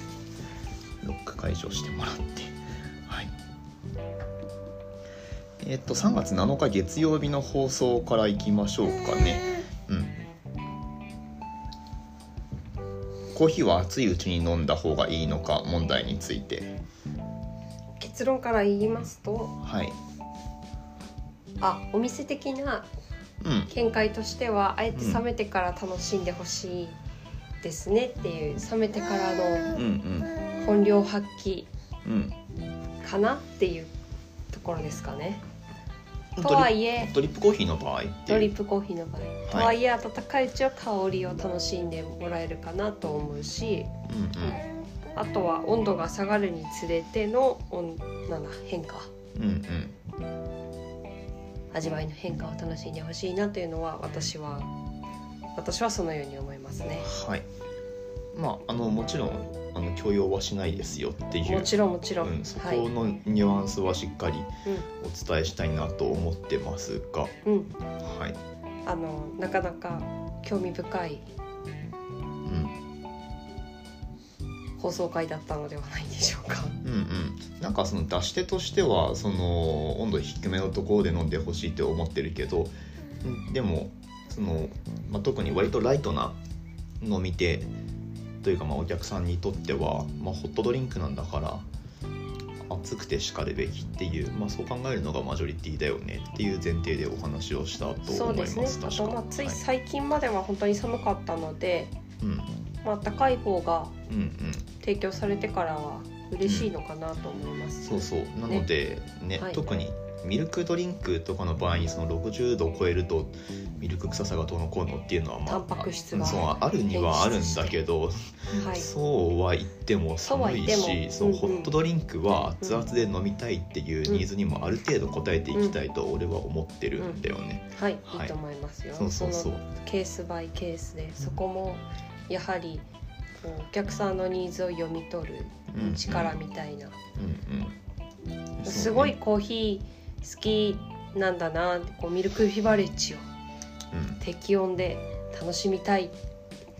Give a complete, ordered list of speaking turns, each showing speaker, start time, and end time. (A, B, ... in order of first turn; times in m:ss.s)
0:01.0-0:03.3 A
0:05.6-0:10.2 A
0:13.3-0:16.8 A
0:18.0-0:19.6 B
0:19.6-0:20.0 A
0:21.6-0:22.9 B
0:23.4-0:23.7 A
0:23.7-0:27.0 B
0:24.9-0:25.2 A
0:27.6-0:29.7 B
0:29.7-0:30.3 A
0:30.6-0:31.7 B
0:32.0-0:32.4 A
0:33.0-0:33.9 B
0:34.5-0:35.4 B
0:36.3-0:38.5 A
0:36.4-0:37.1 B
0:38.3-0:43.9 B
0:39.5-0:39.7 A
0:44.1-0:44.6 A
0:45.2-0:49.1 B
0:49.3-0:50.0 A
0:51.7-0:54.7 B
0:55.6-0:57.1 B
0:57.0-0:57.4 A
0:58.3-1:07.3 A
1:01.4-1:02.9 B
1:07.4-1:07.7 B
1:08.0-1:08.4 A
1:08.8-1:11.2 B
1:12.4-1:12.8 A
1:14.8-1:16.8 B
1:16.8-1:26.4 A
1:27.0-1:27.7 A
1:28.4-1:31.6 A
1:32.6-1:39.6 A
1:38.1-1:41.9 B
1:42.2-1:42.5 A
1:42.8-1:44.0 B
1:44.1-1:44.7 A
1:44.8-1:48.6 B
1:46.4-1:46.7 A
1:47.8-2:08.3 A
1:49.4-1:49.6 B
1:55.4-1:57.8 B
1:58.5-1:58.9 B
2:00.2-2:01.7 B
2:07.7-2:12.8 B
2:08.9-2:09.6 A
2:13.4-2:17.0 B
2:15.7-2:16.4 A
2:17.2-2:17.8 A
2:18.6-2:19.1 A
2:18.6-2:23.2 B
2:23.9-2:24.2 A
2:24.2-2:26.1 B